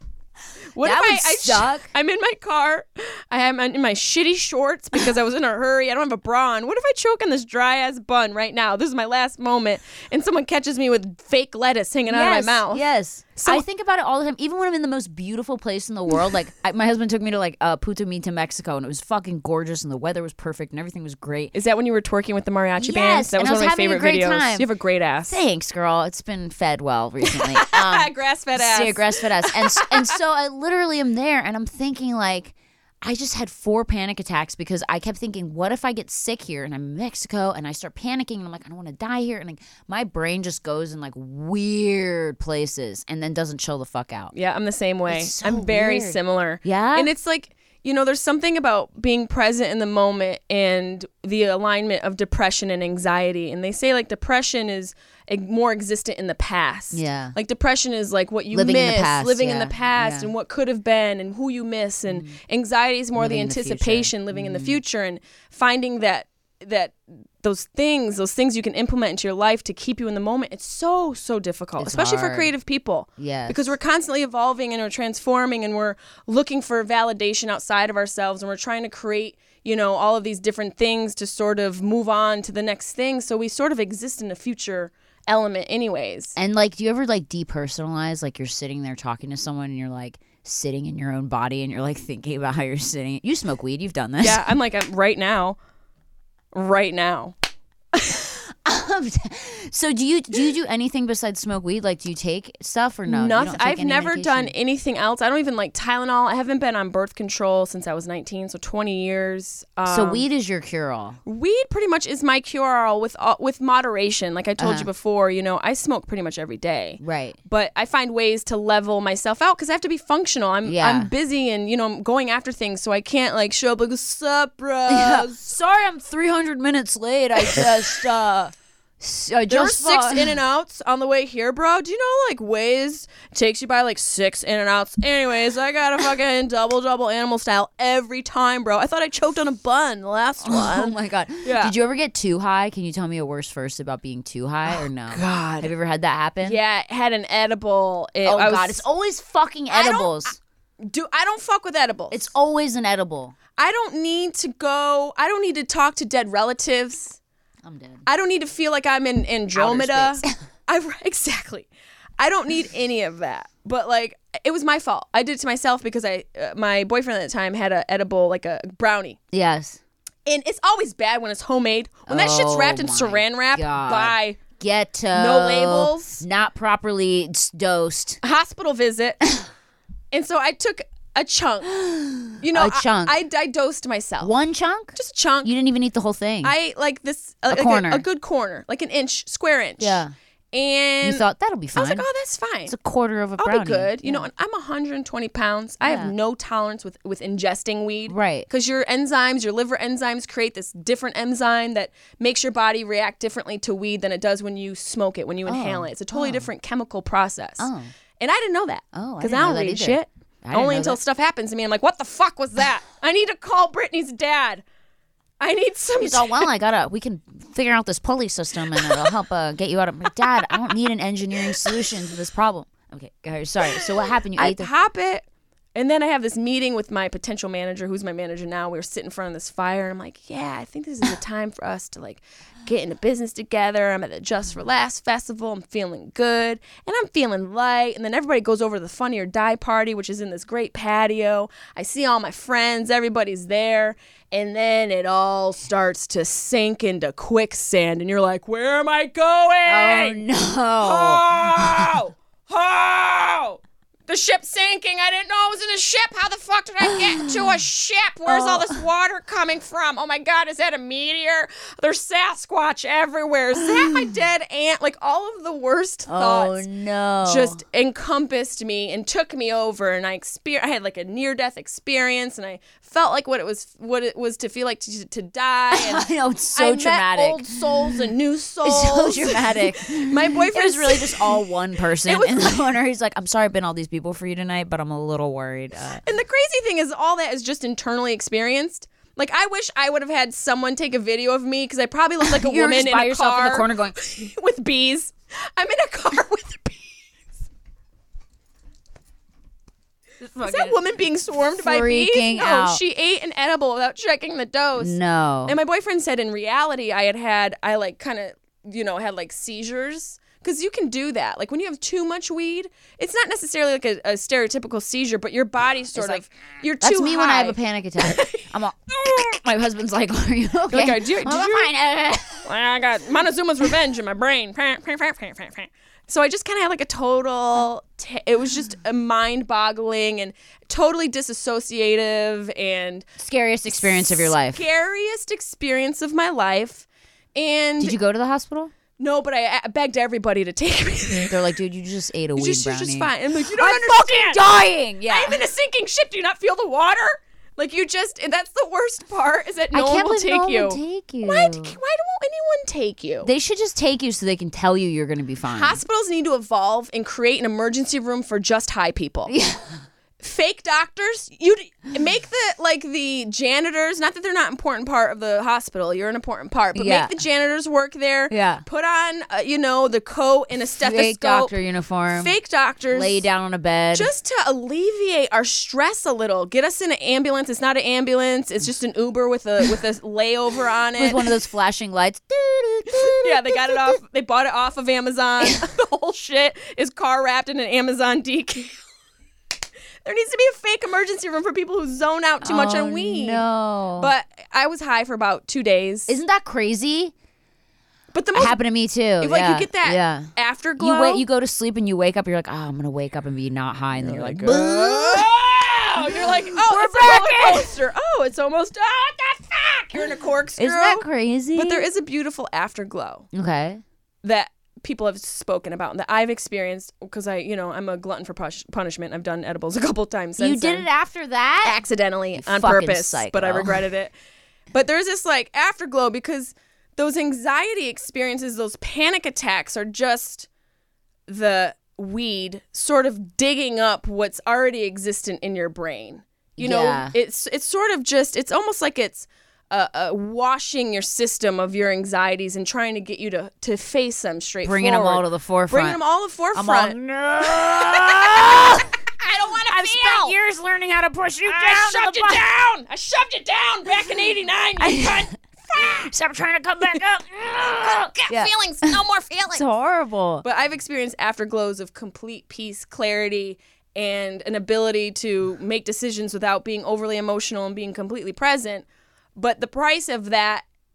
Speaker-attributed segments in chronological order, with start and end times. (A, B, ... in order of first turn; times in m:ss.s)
0:00.7-0:12.8 A
0:00.8-0:01.9 B
0:12.1-0:21.5 B
0:13.3-0:13.6 A
0:21.5-0:25.4 A
0:22.8-0:24.7 B
0:25.3-0:44.3 B
0:27.3-0:30.2 A
0:44.3-1:26.4 A
0:45.1-0:47.1 B
0:56.9-0:57.4 B
0:58.5-1:00.3 B
1:02.1-1:02.4 B
1:03.2-1:04.8 B
1:11.8-1:12.5 B
1:13.2-1:13.8 B
1:26.4-1:34.4 B
1:34.2-1:35.6 A
1:36.5-1:37.3 A
1:38.6-1:44.5 B
1:43.1-1:50.2 A
1:49.9-1:51.2 B
1:51.3-2:05.5 A
1:54.6-1:54.9 B
1:57.0-1:57.4 B
2:00.6-2:01.1 B
2:04.9-2:10.4 B
2:09.5-2:21.7 A
2:20.4-2:26.6 B
2:24.7-2:25.7 A
2:26.4-2:28.8 A
2:28.2-2:30.4 B
2:29.7-2:32.2 A
2:32.1-2:33.3 B
2:33.6-2:37.2 A
2:37.6-2:38.0 B
2:38.1-2:41.7 A
2:39.6-2:40.3 B
2:42.2-2:49.2 A
2:49.3-2:49.8 B
2:50.3-2:54.4 A
2:52.1-2:58.2 B
2:55.1-2:56.2 A
2:58.2-2:59.3 A
3:00.1-3:04.3 A
3:01.8-3:03.1 B
3:04.2-3:06.6 B
3:05.0-3:05.5 A
3:06.4-3:12.7 A
3:07.5-3:08.0 B
3:09.8-3:10.1 B
3:11.0-3:12.0 B
3:12.7-3:14.3 B
3:13.4-3:27.7 A
3:15.8-3:16.1 B
3:18.1-3:18.5 B
3:25.5-3:26.5 B
3:27.6-3:27.9 B
3:28.2-3:34.6 A
3:28.9-3:31.0 B
3:35.4-3:36.5 A
3:36.0-3:44.7 B
3:44.4-4:10.2 A
4:09.7-4:11.9 B
4:10.8-4:26.6 A
4:16.9-4:17.6 B
4:18.3-4:18.8 B
4:23.6-4:24.0 B
4:26.1-4:27.6 B
4:27.2-4:41.4 A
4:35.7-4:38.0 B
4:38.6-4:46.0 B
4:42.0-4:42.7 A
4:46.0-4:56.9 A
4:52.2-4:54.0 B
5:00.2-5:00.8 B
5:00.4-5:05.0 A
5:01.6-5:02.8 B
5:04.8-5:05.6 B
5:05.5-5:19.4 A
5:16.0-5:16.2 B
5:16.8-5:22.4 B
5:20.7-5:21.7 A
5:22.4-5:33.1 A
5:33.2-5:34.6 B
5:33.7-5:38.0 A
5:37.8-5:38.7 B
5:39.0-5:41.5 A
5:41.3-5:45.4 B
5:42.4-5:44.5 A
5:45.1-5:53.3 A
5:49.7-5:51.8 B
5:53.2-5:55.8 B
5:55.5-5:59.3 A
5:59.3-5:59.8 B
6:00.2-6:11.5 A
6:06.7-6:07.1 B
6:08.3-6:08.6 B
6:10.8-6:12.3 B
6:12.1-6:13.2 A
6:12.9-6:14.1 B
6:13.9-6:21.3 A
6:21.0-6:24.0 B
6:23.2-6:28.8 A
6:30.0-6:33.4 A
6:32.4-6:34.1 B
6:34.0-6:36.1 A
6:36.1-6:37.1 B
6:38.1-6:38.6 A
6:38.3-6:45.3 B
6:39.2-6:41.2 A
6:44.0-6:53.3 A
6:46.1-6:47.7 B
6:50.6-6:51.9 B
6:53.3-6:53.8 B
6:54.2-7:00.9 A
7:00.4-7:01.8 B
7:01.6-7:04.1 A
7:02.4-7:03.8 B
7:04.7-7:10.5 A
7:11.3-7:30.4 A
7:16.6-7:17.1 B
7:24.6-7:26.0 B
7:26.6-7:28.9 B
7:29.7-7:32.4 B
7:31.4-7:39.6 A
7:34.8-7:35.2 B
7:35.8-7:39.0 B
7:39.6-7:40.4 B
7:40.4-7:50.6 A